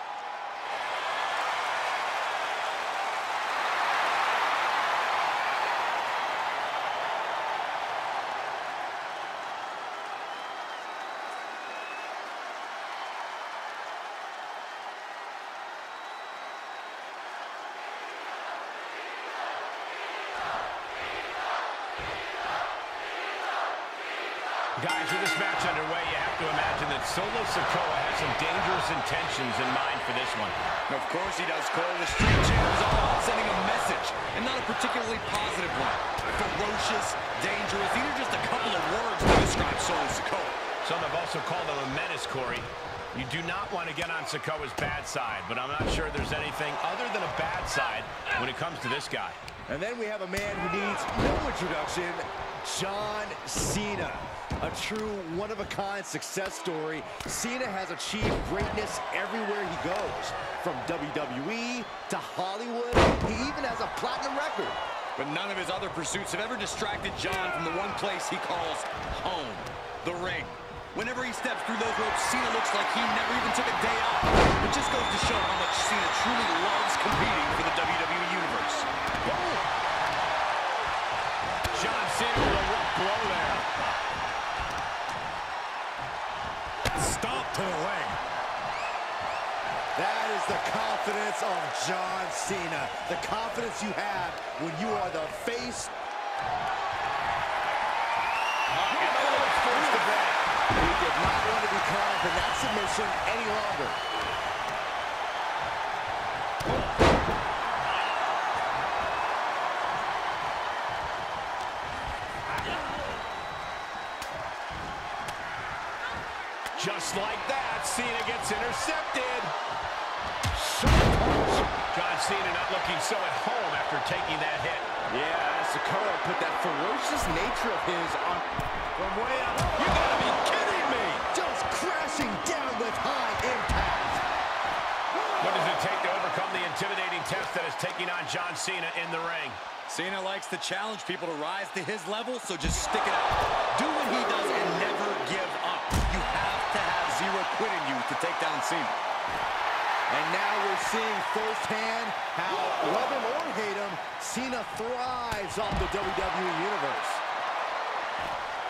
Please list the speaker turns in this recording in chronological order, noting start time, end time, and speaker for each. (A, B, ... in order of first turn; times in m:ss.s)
0:24.8-0:30.6 A
0:30.9-0:40.6 B
0:40.8-0:49.4 A
0:49.7-1:04.8 C
1:05.2-1:18.9 B
1:19.2-1:19.6 A
1:21.7-1:23.7 A
1:26.9-1:28.2 B
1:30.0-1:35.9 C
1:38.7-1:40.4 A
1:40.7-1:44.0 C
1:56.7-1:59.5 A
2:00.5-2:01.7 C
2:01.9-2:04.9 A
2:05.1-2:10.1 C
2:11.2-2:14.2 C
2:15.4-2:19.6 A
2:19.9-2:29.0 B
2:30.1-2:37.2 C